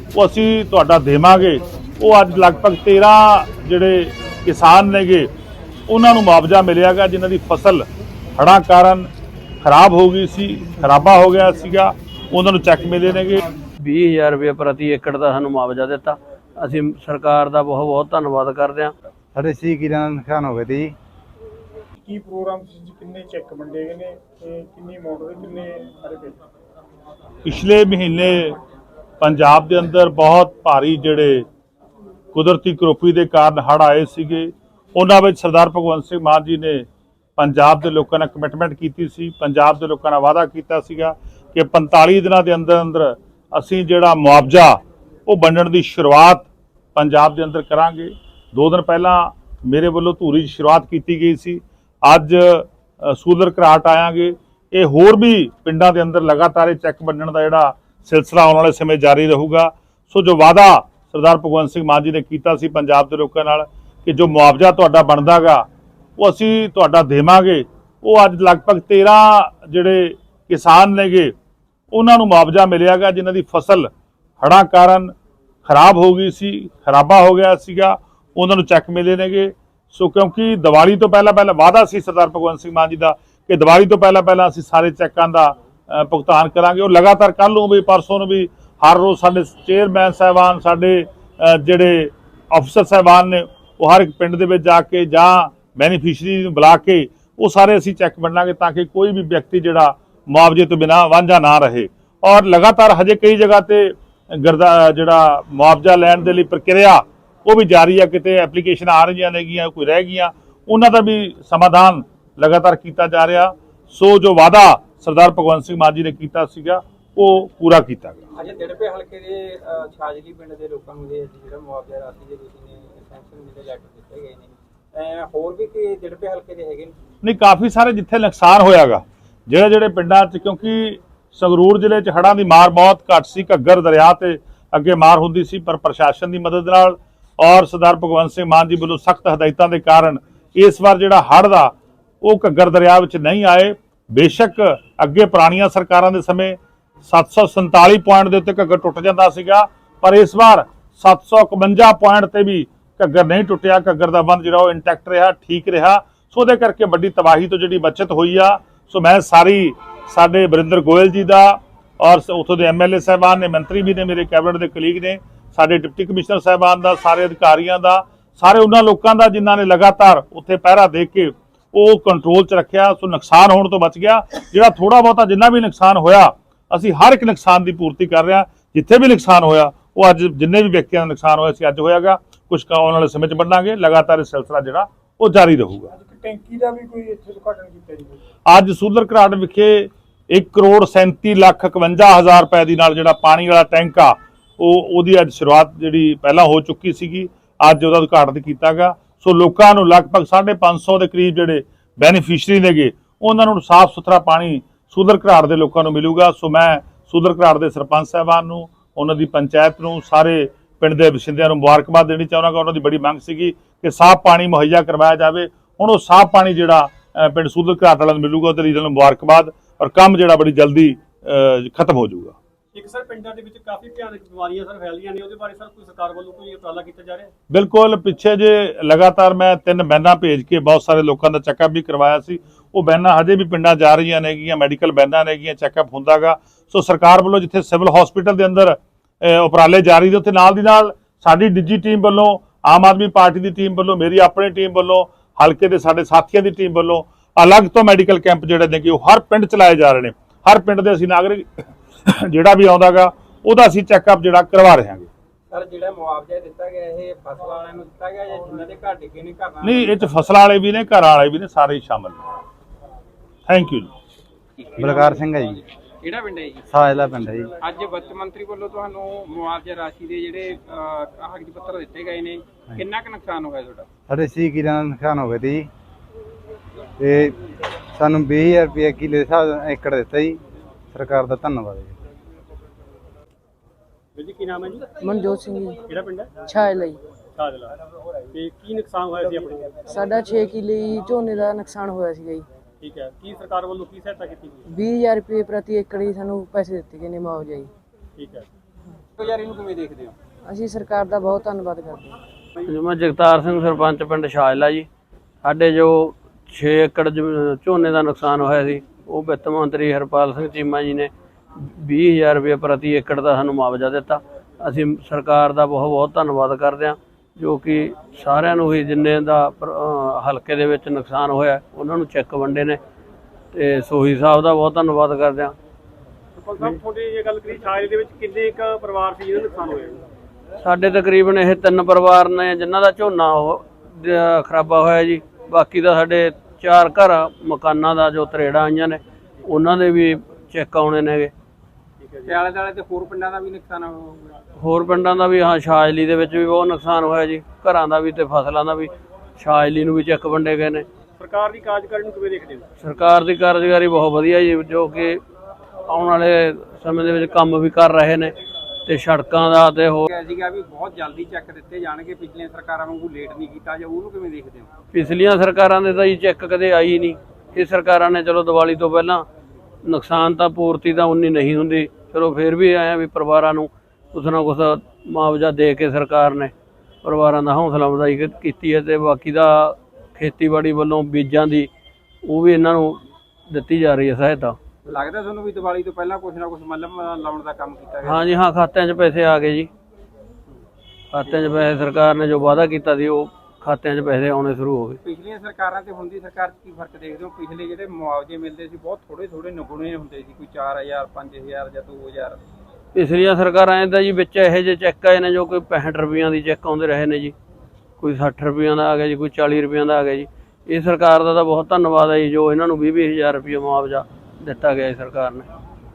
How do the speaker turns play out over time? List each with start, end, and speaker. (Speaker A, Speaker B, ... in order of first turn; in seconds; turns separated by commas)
Speaker A: 0.1-5.3, Speaker A: 5.9-7.8, Speaker A: 8.4-9.1, Speaker A: 9.6-13.4, Speaker B: 13.8-18.9, Speaker C: 19.3-20.9, Speaker D: 22.0-26.4, Speaker A: 27.4-28.6, Speaker A: 29.2-31.4, Speaker A: 32.3-36.8, Speaker A: 37.4-65.7, Speaker A: 66.2-71.3, Speaker A: 71.9-73.9, Speaker A: 74.4-75.1, Speaker A: 75.6-118.2, Speaker E: 118.3-126.9, Speaker A: 127.2-185.9, Speaker D: 185.9-188.2, Speaker A: 188.5-222.3, Speaker F: 222.7-227.3, Speaker A: 227.5-255.1, Speaker E: 255.5-260.2, Speaker A: 259.6-262.2, Speaker A: 263.5-263.9, Speaker E: 264.6-266.7, Speaker C: 264.8-265.6, Speaker C: 266.7-267.5, Speaker E: 267.6-273.9, Speaker C: 274.1-275.7, Speaker C: 277.0-277.3, Speaker C: 277.9-280.4, Speaker C: 280.9-281.9, Speaker F: 284.1-285.0, Speaker G: 285.0-285.8, Speaker F: 285.8-286.3, Speaker G: 286.4-287.0, Speaker F: 287.4-287.8, Speaker F: 288.3-289.8, Speaker G: 289.9-292.4, Speaker F: 292.8-294.6, Speaker G: 294.7-297.7, Speaker F: 298.2-298.5, Speaker E: 299.2-300.1, Speaker G: 300.4-302.2, Speaker B: 302.6-304.9, Speaker B: 305.4-322.8, Speaker B: 323.5-325.5, Speaker F: 326.4-330.0, Speaker B: 330.6-341.3, Speaker F: 342.0-342.4, Speaker E: 342.2-344.4, Speaker B: 344.6-350.9, Speaker F: 351.2-352.7, Speaker B: 352.8-355.2, Speaker B: 355.9-358.3, Speaker B: 358.9-360.1, Speaker E: 360.1-364.7, Speaker B: 364.9-369.2, Speaker B: 369.9-376.5, Speaker B: 377.0-381.7, Speaker B: 382.2-384.6, Speaker E: 384.9-388.3, Speaker B: 388.0-389.7, Speaker B: 391.1-395.0, Speaker E: 395.0-402.4, Speaker B: 402.9-407.3, Speaker B: 408.0-415.5